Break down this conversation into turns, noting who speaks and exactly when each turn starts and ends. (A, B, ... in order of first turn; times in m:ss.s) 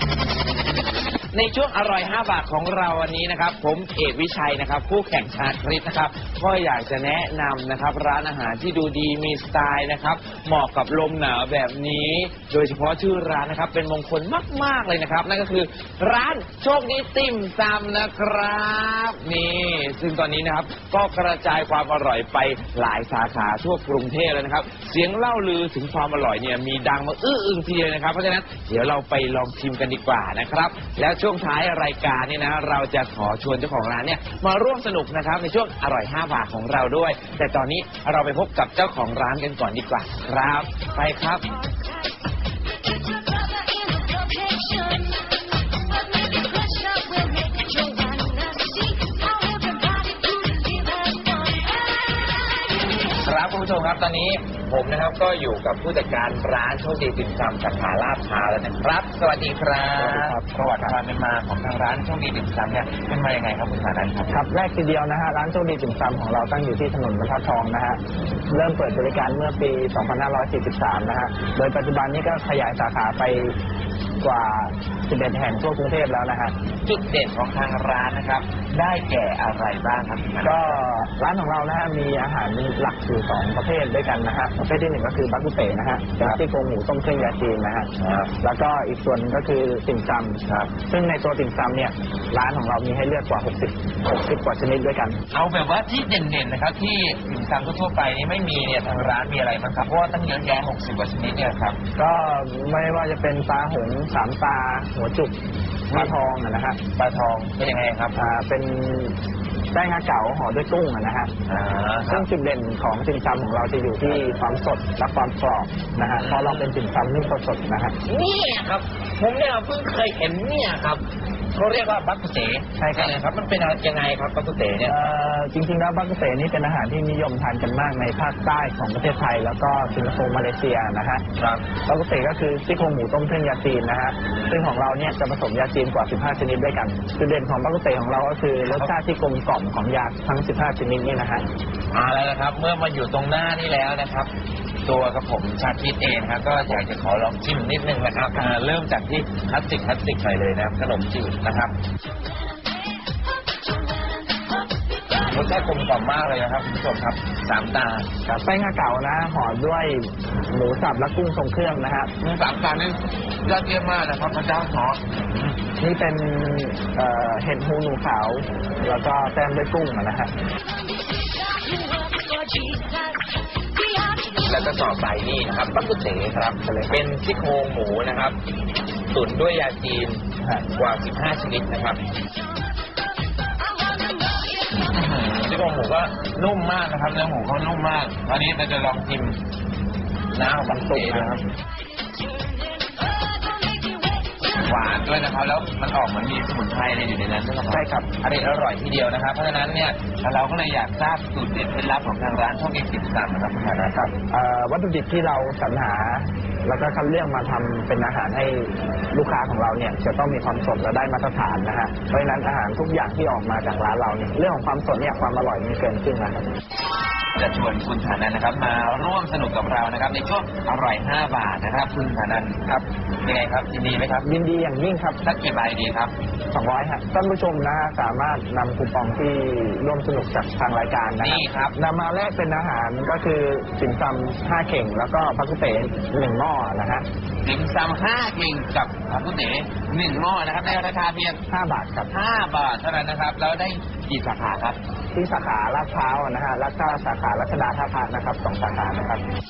0:01.3-0:41.6 A
0:42.8-0:52.4 B
0:53.0-1:04.3 A
1:00.0-1:01.0 C
1:04.3-1:08.0 C
1:08.5-1:13.6 C
1:14.2-1:16.6 C
1:16.8-1:20.8 A
1:20.4-1:35.2 C
1:28.0-1:28.4 A
1:35.3-1:41.8 A
1:42.0-1:45.4 C
1:45.9-1:46.2 A
1:45.9-1:46.8 C
1:47.0-1:48.2 A
1:48.2-1:49.2 C
1:49.7-1:51.3 C
1:51.5-1:52.2 A
1:52.1-1:58.0 C
1:56.0-1:56.7 A
1:58.0-2:01.0 A
2:01.6-2:05.1 A
2:02.8-2:03.2 C
2:04.8-2:11.2 C
2:11.4-2:11.7 A
2:11.8-2:21.4 C
2:18.6-2:18.9 A
2:21.9-2:24.3 A
2:24.8-2:31.8 A
2:35.2-2:38.1 A
2:38.3-2:42.1 C
2:42.2-2:45.6 A
2:45.8-2:50.3 C
2:50.8-2:54.3 B
2:54.3-2:58.4 A
2:56.6-2:57.0 C
2:59.1-3:02.1 A
3:00.4-3:00.7 C
3:03.7-3:04.5 B
3:04.7-3:09.4 A
3:10.3-3:11.5 A
3:10.7-3:11.5 C
3:12.2-3:14.4 B
3:14.5-3:24.1 A
3:17.7-3:18.1 C
3:24.0-3:36.5 C
3:37.4-3:44.3 A
3:44.2-3:45.2 C
3:45.2-3:46.1 A
3:46.5-3:57.1 C
3:51.2-3:51.8 A
3:57.4-4:01.4 A
4:01.5-4:02.1 C
4:02.1-4:04.8 A
4:05.1-4:09.2 C